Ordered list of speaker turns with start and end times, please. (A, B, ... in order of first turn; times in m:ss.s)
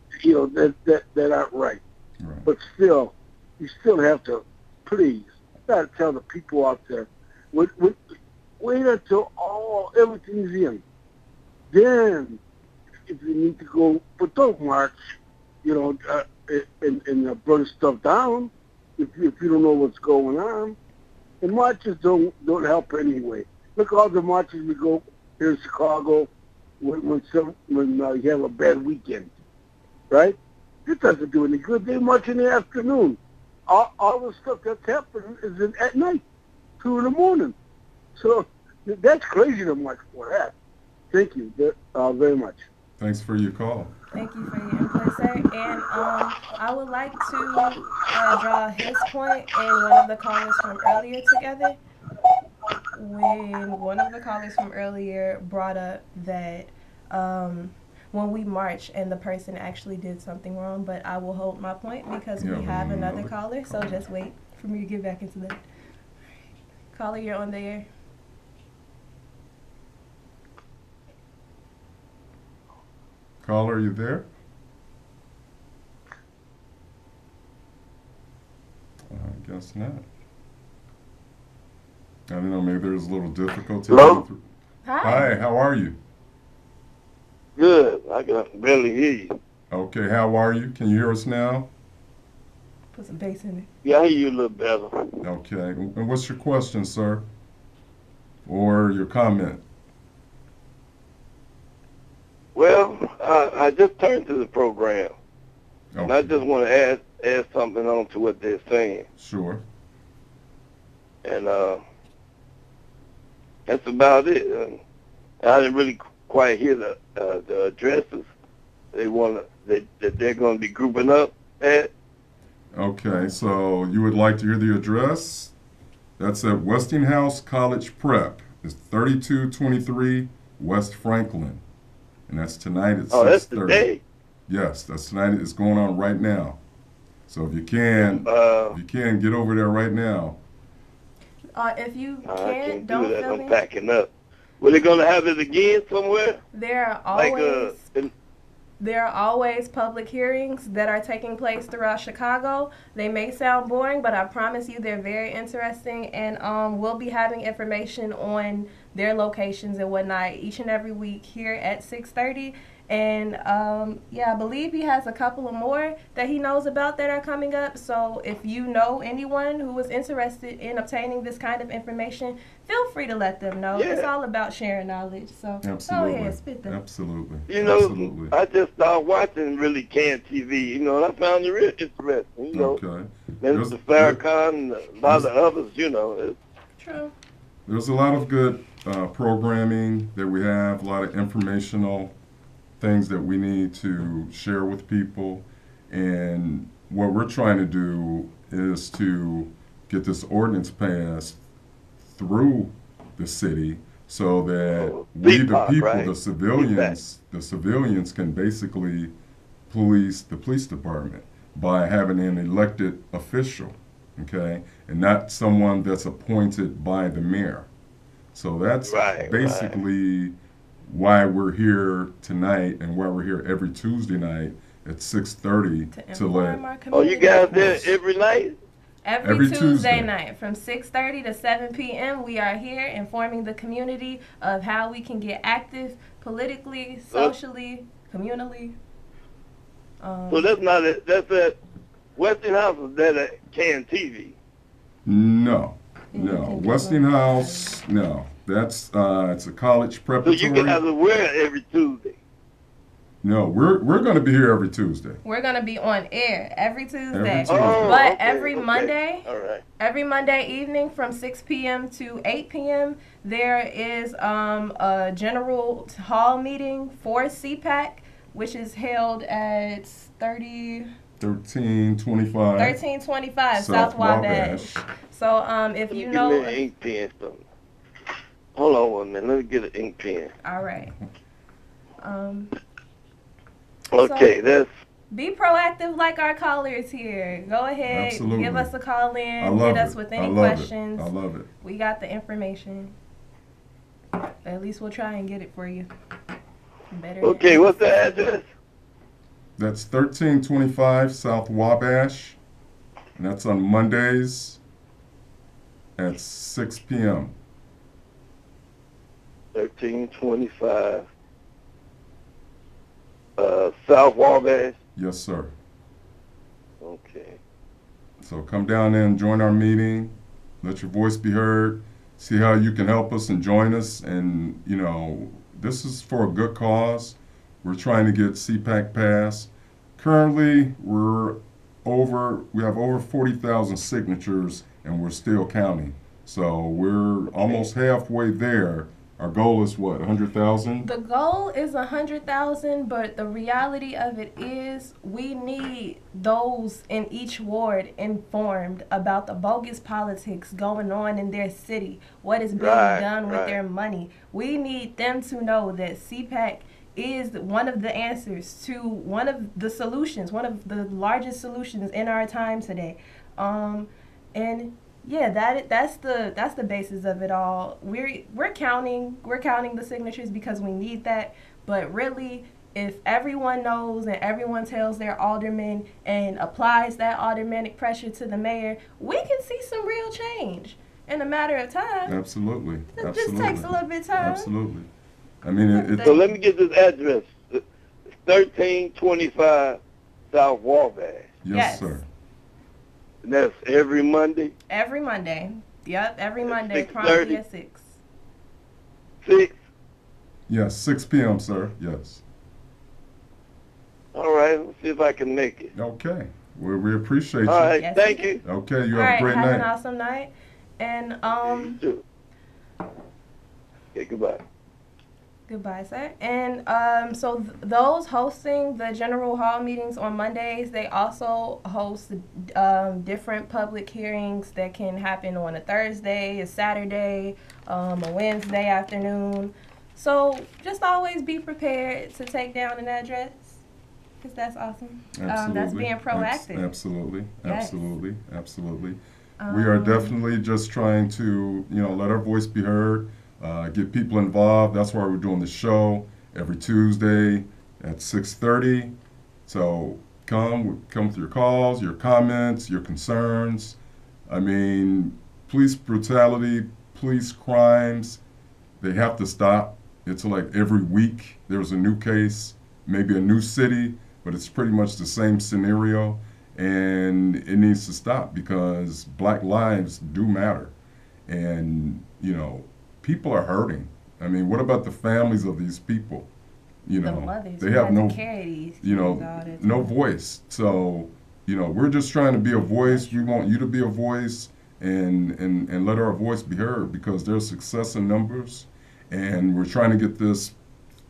0:00.2-0:01.8 A
0:02.2-0:02.5 B
0:02.5-0:08.0 A
0:08.6-0:10.8 A
0:11.7-0:12.4 A
0:13.1-0:15.0 A
0:15.6-0:20.8 A
0:21.4-0:26.3 A
0:26.8-0:29.3 A
0:30.1-0:36.2 A
0:36.8-0:37.6 A
0:38.2-0:40.5 A
0:41.1-0:42.6 A
0:43.0-0:43.9 B
0:44.1-0:51.8 C
0:52.9-1:05.6 C
1:02.4-1:04.0 B
1:06.9-1:07.9 C
1:13.4-1:14.3 B
1:19.1-1:20.0 B
1:22.3-1:24.4 B
1:23.9-1:24.2 D
1:24.8-1:25.4 C
1:25.0-1:26.0 B
1:27.6-1:29.4 D
1:29.7-1:31.7 B
1:32.9-1:33.7 C
1:33.8-1:35.2 D
1:35.2-1:37.3 B
1:38.4-1:39.6 B
1:42.6-1:45.1 D
1:45.9-1:46.4 B
1:46.1-1:49.0 D
1:49.2-1:49.6 B
1:51.2-1:51.8 D
1:53.7-1:54.8 D
1:55.4-1:58.3 D
1:58.9-2:01.9 D
2:02.7-2:05.5 B
2:06.2-2:11.6 B
2:12.3-2:13.9 B
2:13.1-2:14.0 D
2:14.5-2:16.6 B
2:17.3-2:20.4 B
2:18.0-2:18.8 D
2:21.6-2:23.6 C
2:22.3-2:26.4 D
2:26.5-2:27.8 C
2:27.1-2:28.1 D
2:28.8-2:56.8 C
2:53.7-2:54.1 D
2:55.6-2:58.3 B
2:57.5-3:02.8 D
3:02.5-3:04.2 B
3:03.4-3:06.4 D
3:05.0-3:05.3 B
3:06.8-3:07.1 C
3:07.7-3:12.1 B
3:12.8-3:21.4 B
3:22.1-3:29.1 B
3:24.6-3:26.9 D
3:29.7-3:37.7 B
3:38.3-3:46.6 B
3:38.8-3:39.8 D
3:45.9-3:47.9 C
3:46.9-3:48.6 D
3:47.5-3:47.9 B
3:49.0-3:58.8 C
3:49.2-3:50.1 B
4:00.0-4:00.5 C
4:00.3-4:01.6 D
4:02.2-4:04.4 D
4:05.1-4:10.8 B
4:06.1-4:07.8 C
4:10.2-4:12.2 D
4:13.2-4:15.2 B
4:15.2-4:19.3 C
4:17.1-4:18.0 B
4:17.5-4:19.6 D
4:19.8-4:30.9 C
4:31.2-4:32.8 B
4:32.6-4:36.6 C
4:33.5-4:34.8 B
4:35.9-4:37.4 D
4:38.6-4:40.3 D
4:40.4-4:41.0 C
4:42.0-4:42.6 C
4:43.9-4:44.7 D
4:44.0-4:44.3 C
4:45.1-4:53.0 C
4:47.9-4:48.7 B
4:49.4-4:51.5 B
4:54.4-4:55.9 C
4:56.9-4:57.8 C
4:57.2-4:58.5 D
4:59.6-5:02.4 B
5:03.2-5:04.6 B
5:06.0-5:07.3 B
5:09.6-5:11.0 D
5:13.4-5:14.8 D
5:15.0-5:15.5 B
5:16.8-5:17.4 D
5:18.2-5:40.9 B
5:40.8-6:22.2 C
5:52.6-5:53.6 D
6:22.1-6:24.9 B
6:22.9-6:24.5 C
6:25.4-6:26.2 B
6:25.7-6:26.3 C
6:26.0-6:27.6 D
6:28.2-6:29.8 D
6:30.3-6:31.3 D
6:31.4-6:32.0 B
6:31.5-6:32.0 C
6:33.2-6:34.5 D
6:34.7-6:37.9 C
6:36.5-6:37.4 D
6:39.2-6:39.6 D
6:40.5-6:42.2 B
6:44.1-6:45.7 D
6:45.8-6:47.8 B
6:47.5-6:48.4 D
6:47.8-6:48.4 C
6:48.4-6:49.7 B
6:48.9-6:51.8 C
6:51.4-6:52.0 D
6:54.0-6:54.4 D
6:55.5-7:13.6 C
7:14.2-7:16.7 C
7:15.2-7:28.9 B
7:17.4-7:17.9 C
7:19.4-7:20.2 C
7:29.5-7:33.8 B
7:34.3-7:38.2 B
7:38.8-7:50.7 B
7:51.3-7:56.3 B
7:56.8-7:58.2 B
7:57.0-7:59.9 C
7:58.8-8:10.6 B
8:02.8-8:03.4 C